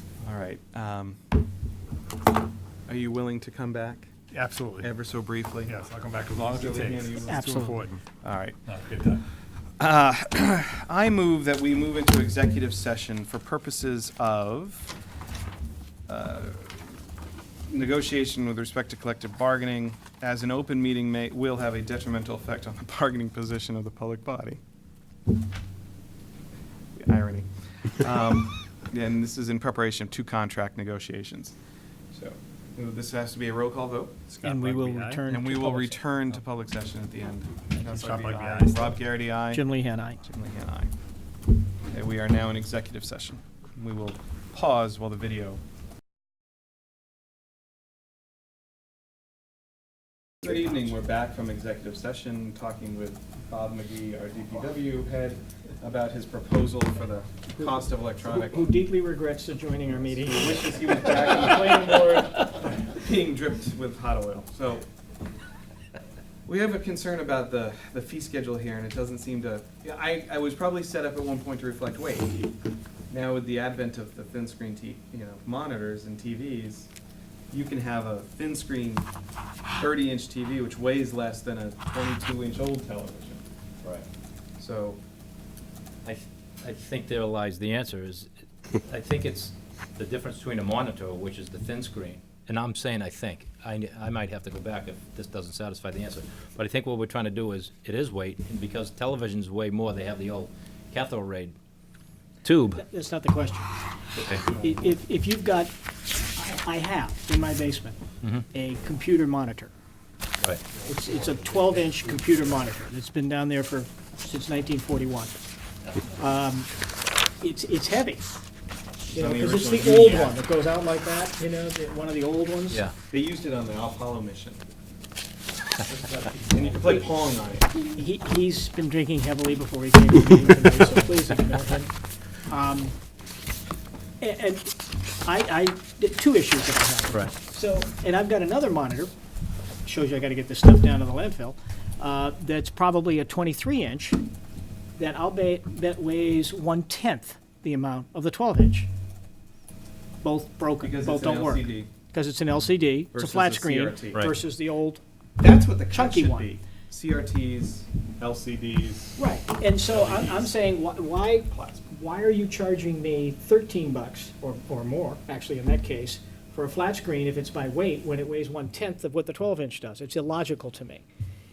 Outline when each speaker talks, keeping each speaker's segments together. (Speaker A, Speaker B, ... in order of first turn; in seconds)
Speaker A: 0.2-1.2, 2.9-4.1, 4.8-5.8, 6.3-7.6, 8.2-8.6, 9.8-14.9, 16.1-16.9, 17.7-24.6, 27.0-31.6, 32.1-34.2, 35.3-39.6, 40.2-40.9, 41.9-45.6, 50.4-58.6, 60.2-64.8, 66.5-72.3, 73.1-76.9, 77.5-79.1, 79.8-83.4, 84.6-85.0, 119.1-120.3, 123.1-124.6, 126.5-127.9, 150.8-151.9, 153.1-154.3, 155.4-159.2, 159.9-160.5, 161.5-161.9
Speaker B: 4.3-5.0, 5.6-8.0, 8.7-9.2, 34.3-35.2, 37.7-39.0
Speaker C: 7.2-7.8, 34.4-36.0, 39.5-40.2, 58.2-61.9, 102.8-103.7, 104.5-105.7, 106.3-108.0, 108.5-109.7, 110.8-115.4, 116.2-116.7, 117.4-118.3, 119.1-122.8, 128.0-131.9, 132.5-133.0, 134.2-139.1, 139.8-144.2, 145.0-148.9, 150.2-155.0, 155.9-156.5, 159.2-171.0
Speaker D: 86.0-88.3, 88.8-101.5, 102.4-102.8, 104.2-104.5